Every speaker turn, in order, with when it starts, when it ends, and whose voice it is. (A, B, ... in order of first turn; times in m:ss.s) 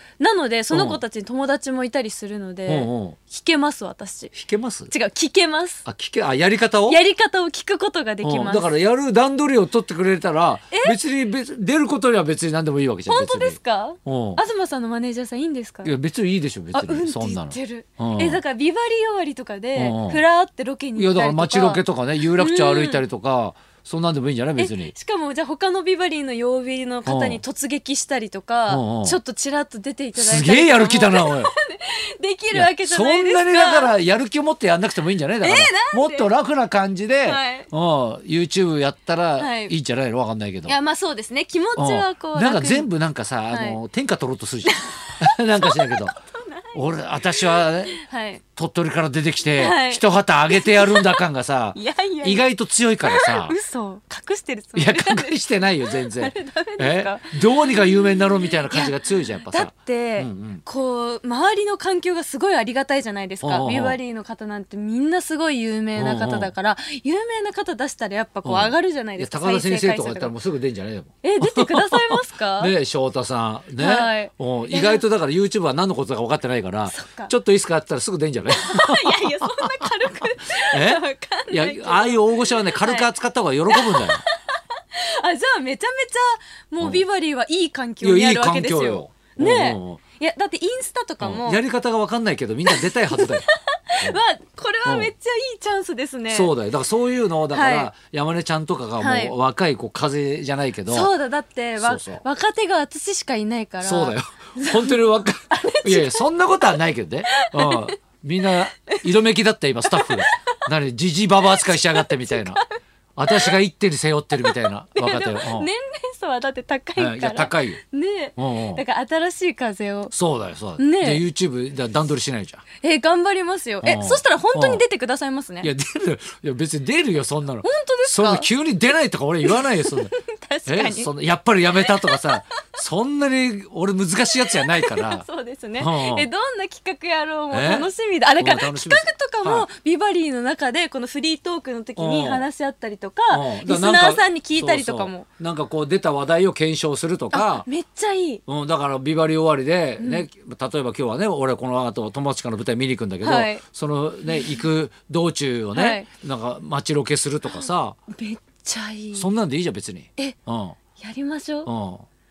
0:00.2-0:04.3 A
0:00.7-0:01.0 B
0:02.7-0:03.2 B
0:04.3-0:04.9 B
0:04.9-0:05.8 A
0:05.8-0:07.0 B
0:06.9-0:08.7 A
0:08.2-0:14.4 B
0:10.7-0:11.0 A
0:13.1-0:15.9 A
0:15.8-0:18.4 B
0:16.7-0:23.0 A
0:19.8-0:20.2 B
0:21.0-0:24.9 B
0:24.6-0:33.9 A
0:27.0-0:27.4 B
0:28.7-0:29.2 B
0:30.2-0:31.5 B
0:32.5-0:40.8 B
0:35.4-0:36.3 A
0:37.2-0:37.7 A
0:39.4-0:39.7 A
0:40.6-0:42.9 A
0:41.8-0:46.2 B
0:43.5-0:43.8 A
0:44.6-0:48.4 A
0:46.7-0:48.0 B
0:48.6-0:53.6 B
0:49.6-0:51.2 A
0:51.8-0:52.5 A
0:53.0-1:10.3 A
0:54.8-1:00.6 B
1:03.4-1:04.0 B
1:06.0-1:06.5 B
1:08.4-1:19.9 B
1:11.2-1:12.7 A
1:13.8-1:15.0 A
1:16.9-1:17.3 A
1:18.5-1:23.1 A
1:20.6-1:24.2 B
1:23.7-1:31.6 A
1:26.8-1:27.0 B
1:28.0-1:30.0 B
1:31.2-1:33.4 B
1:32.7-1:36.5 A
1:34.8-1:35.1 B
1:36.3-1:41.1 B
1:37.5-1:37.9 A
1:39.0-1:39.4 A
1:40.9-1:46.8 A
1:41.8-1:42.2 B
1:43.8-1:52.6 B
1:47.3-1:48.0 A
1:49.9-1:50.4 A
1:51.7-1:52.7 A
1:53.2-1:55.7 B
1:53.3-1:53.6 A
1:54.4-2:00.1 A
1:57.0-1:57.8 B
1:58.4-1:58.8 B
2:00.1-2:02.6 B
2:00.8-2:01.2 A
2:02.8-2:05.7 A
2:03.8-2:04.8 B
2:05.6-2:10.2 B
2:07.6-2:08.5 A
2:09.4-2:11.1 A
2:10.7-2:15.2 B
2:11.7-2:12.4 A
2:14.4-2:25.3 A
2:15.8-2:16.3 B
2:17.5-2:19.7 B
2:22.0-2:22.4 B
2:23.3-2:27.7 B
2:27.3-2:28.4 A
2:28.5-2:38.0 B
2:30.0-2:30.3 A
2:33.2-2:33.6 A
2:34.3-2:34.6 A
2:35.7-2:36.1 A
2:37.4-2:39.3 A
2:39.1-2:40.8 B
2:41.0-2:41.7 A
2:41.7-2:42.1 B